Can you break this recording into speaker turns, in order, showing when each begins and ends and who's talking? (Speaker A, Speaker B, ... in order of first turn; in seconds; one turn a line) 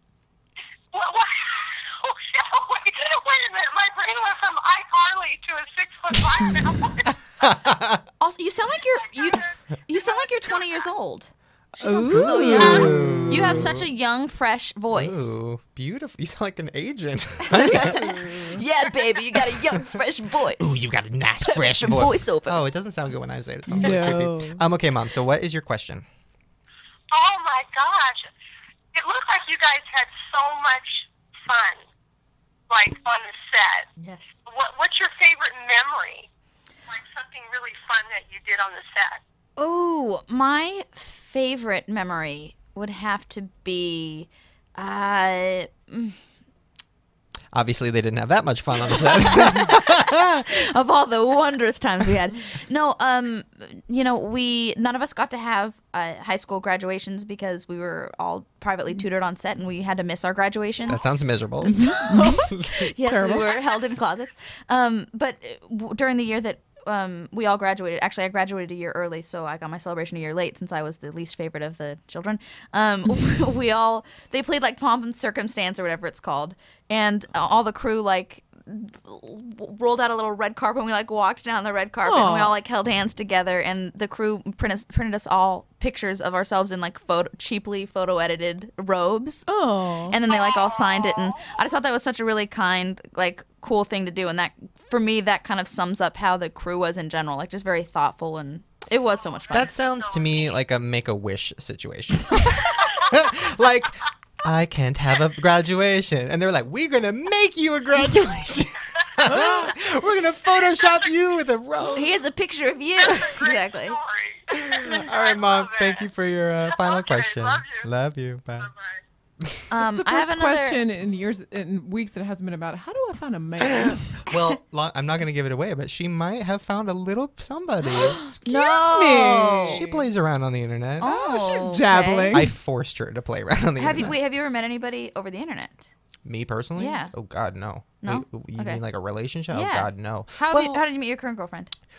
Speaker A: 0.9-7.7
Speaker B: 7.4-8.0
Speaker C: 8.2-15.4
Speaker A: 8.8-10.9
Speaker D: 11.8-13.7
Speaker B: 12.1-13.9
Speaker B: 14.9-18.5
Speaker C: 17.5-20.9
Speaker D: 17.7-18.6
Speaker B: 20.6-26.1
Speaker C: 21.4-22.6
Speaker D: 23.7-24.6
Speaker A: 27.1-28.3
Speaker A: 28.9-31.8
Speaker A: 32.7-33.9
Speaker C: 34.0-34.4
Speaker A: 34.5-36.3
Speaker A: 36.9-39.2
Speaker C: 39.6-46.2
Speaker B: 47.5-50.4
Speaker C: 48.9-61.0
Speaker B: 60.9-62.9
Speaker C: 61.6-89.5
Speaker D: 62.0-62.4
Speaker D: 63.0-63.5
Speaker D: 82.0-82.5
Speaker D: 89.5-90.2
Speaker C: 90.1-99.8
Speaker A: 90.2-91.7
Speaker A: 99.1-100.6
Speaker B: 99.5-112.1
Speaker A: 102.5-103.1
Speaker A: 110.5-111.1
Speaker C: 111.9-114.0
Speaker A: 113.0-116.1
Speaker B: 114.6-118.7
Speaker A: 116.7-117.9
Speaker A: 118.6-119.0
Speaker C: 119.7-120.8
Speaker D: 119.8-124.2
Speaker B: 124.2-128.3
Speaker D: 128.0-130.1
Speaker C: 128.4-129.8
Speaker B: 129.7-131.1
Speaker C: 131.0-132.5
Speaker D: 131.0-132.5
Speaker B: 132.3-134.1
Speaker C: 133.8-135.9
Speaker B: 136.2-140.8
Speaker C: 136.8-137.1
Speaker C: 138.0-138.8
Speaker C: 139.5-141.7